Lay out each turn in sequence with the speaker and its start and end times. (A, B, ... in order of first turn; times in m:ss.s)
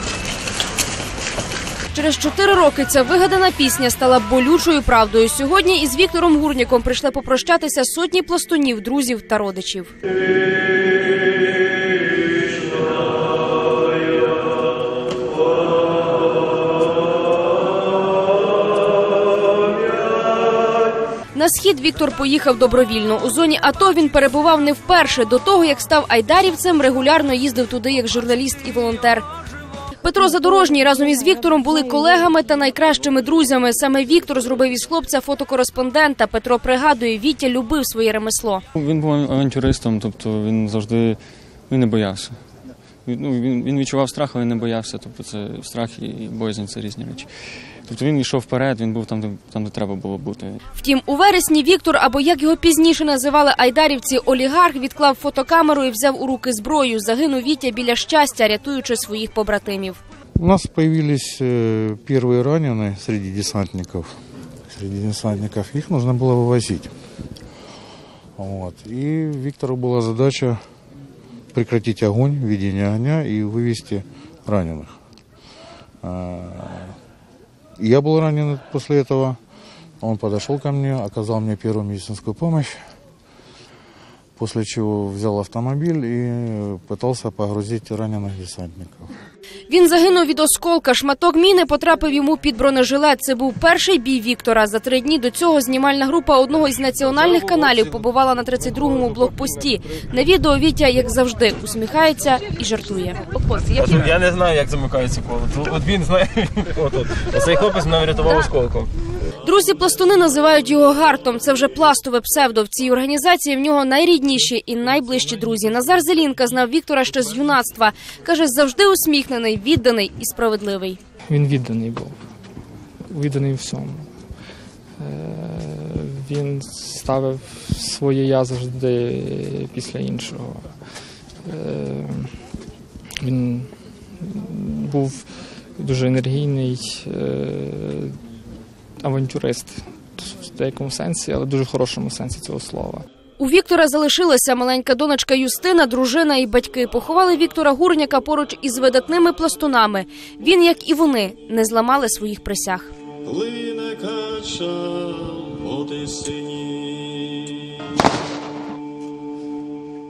0:01.9-0:09.9 A
0:21.4-0:29.2 A
0:30.0-0:38.6 A
0:38.8-0:42.4 B
0:43.0-0:47.3 B
0:47.9-0:50.6 B
0:50.7-1:00.0 A
1:00.4-1:04.1 C
1:04.7-1:06.9 C
1:08.4-1:10.6 C
1:11.5-1:14.9 C
1:16.0-1:17.0 C
1:17.8-1:19.4 C
1:20.0-1:22.7 C
1:24.4-1:29.1 C
1:29.7-1:43.4 A
1:43.6-1:48.9 D
1:49.4-2:01.0 A
2:01.3-2:02.2 E
2:03.1-2:04.1 E
2:05.0-2:10.8 E
2:11.4-2:12.3 E
2:13.2-2:18.2 E
2:19.0-2:23.0 E
2:23.4-2:32.9 A
2:33.2-2:37.5 D